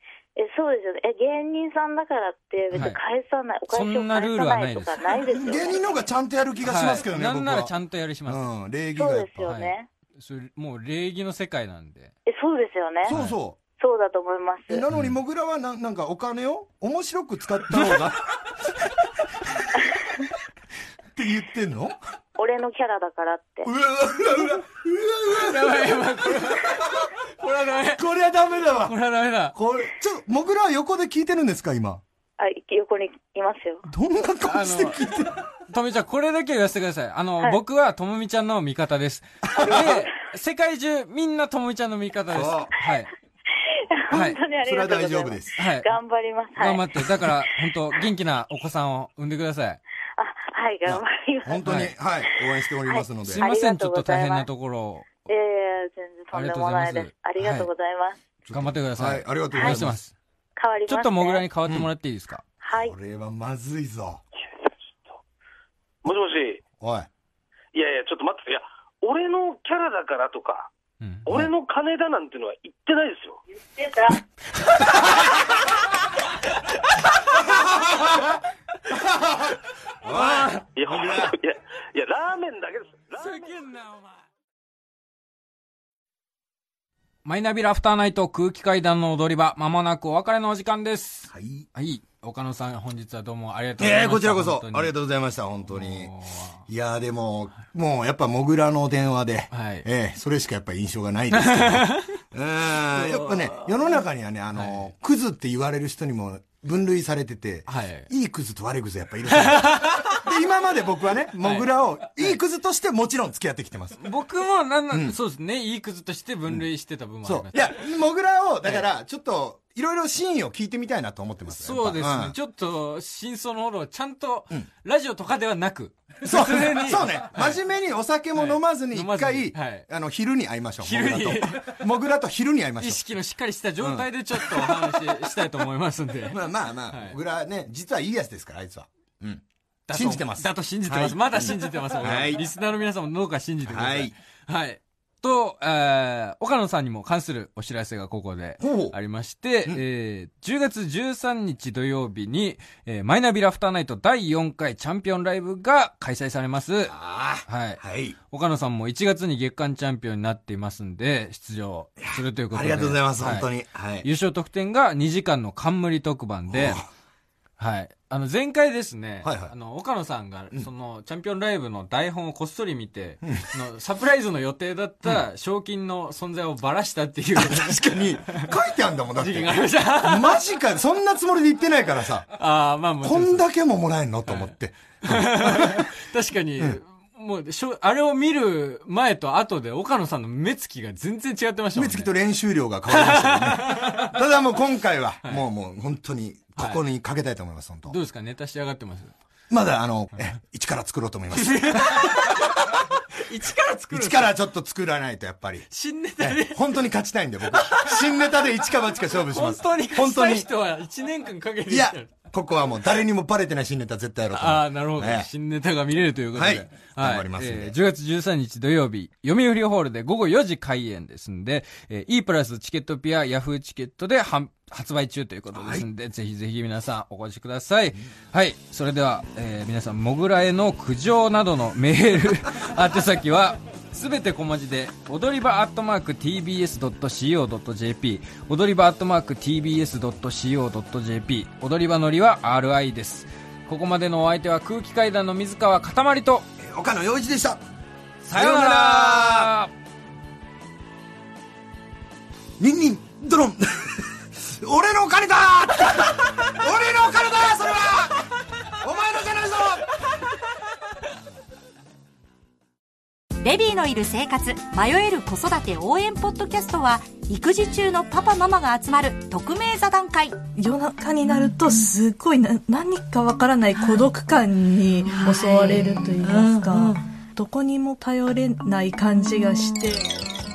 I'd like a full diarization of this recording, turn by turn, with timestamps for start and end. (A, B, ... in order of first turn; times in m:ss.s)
0:00.4-0:05.8 A
0:02.7-0:03.0 B
0:03.7-0:05.2 B
0:05.3-0:07.7 C
0:06.6-0:08.4 B
0:08.3-0:09.5 C
0:09.0-0:09.9 A
0:09.4-0:12.1 B
0:12.2-0:13.2 A
0:13.0-0:13.6 C
0:13.1-0:13.4 B
0:13.8-0:14.8 A
0:14.7-0:18.5 C
0:14.9-0:15.2 B
0:21.1-0:22.0 C
0:22.4-0:23.7 A
0:23.6-0:27.1 C
0:25.4-0:28.1 B
0:27.8-0:29.0 C
0:28.8-0:29.6 B
0:29.5-0:32.0 C
0:32.4-0:33.8 A
0:33.8-0:35.5 C
0:34.4-0:35.1 B
0:35.7-0:43.1 B
0:39.6-0:40.1 A
0:42.3-0:42.7 C
0:43.7-0:47.4 A
0:44.1-0:44.4 B
0:44.1-0:45.6 C
0:45.6-0:45.9 B
0:46.6-0:49.8 B
0:50.2-0:54.5 A
0:50.8-0:53.4 C
0:51.6-0:51.9 B
0:53.3-0:55.1 B
0:55.2-0:58.2 A
0:56.3-0:57.7 B
0:58.4-1:00.0 C
0:58.5-1:00.1 B
1:00.6-1:01.4 A
1:00.9-1:02.4 B
1:02.6-1:03.0 A
1:02.7-1:04.2 C
1:04.6-1:05.2 D
1:06.0-1:06.6 D
1:06.8-1:07.1 C
1:07.7-1:10.7 D
1:11.0-1:11.3 B
1:11.2-1:13.4 D
1:13.8-1:14.2 A
1:17.3-1:21.4 C
1:20.0-1:20.7 B
1:20.8-1:23.5 D
1:23.2-1:24.2 B
1:27.2-1:34.9 B
1:31.3-1:31.7 C
1:33.8-1:36.1 C
1:35.7-1:36.6 B
1:36.7-1:54.1 C
1:39.5-1:39.9 B
1:41.3-1:42.2 B
1:42.8-1:44.0 B
1:44.5-1:44.9 B
1:47.7-1:48.1 B
1:49.3-1:50.3 B
1:51.3-1:52.4 B
1:54.0-1:57.9 B
1:54.9-1:55.2 C
1:57.2-2:02.4 C
2:01.5-2:07.6 B
2:06.2-2:13.0 C
2:08.3-2:09.9 B
2:10.8-2:11.8 B
2:12.8-2:17.2 B
2:13.8-2:15.2 C
2:16.3-2:22.4 C
2:19.9-2:36.9 B
2:23.6-2:24.2 C
2:28.6-2:29.0 C
2:36.9-2:38.2 C
2:37.4-2:43.5 B
2:42.0-2:44.0 C
2:44.0-2:46.8 B
2:46.5-2:46.9 C
2:47.6-2:58.5 B
2:49.2-2:49.5 C
2:57.4-3:02.3 C
2:59.2-3:00.4 B
3:02.3-3:03.5 B
3:03.0-3:05.9 C
3:04.3-3:04.5 B
3:05.0-3:12.1 B
3:11.7-3:18.0 C
3:12.9-3:14.1 B
3:16.6-3:16.8 B
3:17.9-3:19.1 B
3:19.5-3:22.4 C
3:21.3-3:24.4 B
3:23.9-3:25.7 C
3:25.7-3:26.7 B
3:26.2-3:30.5 C
3:27.5-3:28.4 B
3:29.0-3:32.1 B
3:31.7-3:35.3 C
3:34.3-4:06.5 B
3:36.3-3:37.7 C
3:45.5-3:45.8 C
4:06.6-4:07.6 C
4:08.2-4:09.7 B
4:08.3-4:09.5 C
4:12.6-4:18.3 C
4:18.8-4:19.9 C
4:23.4-4:30.4 E
4:30.6-4:40.1 F
4:35.3-4:35.8 E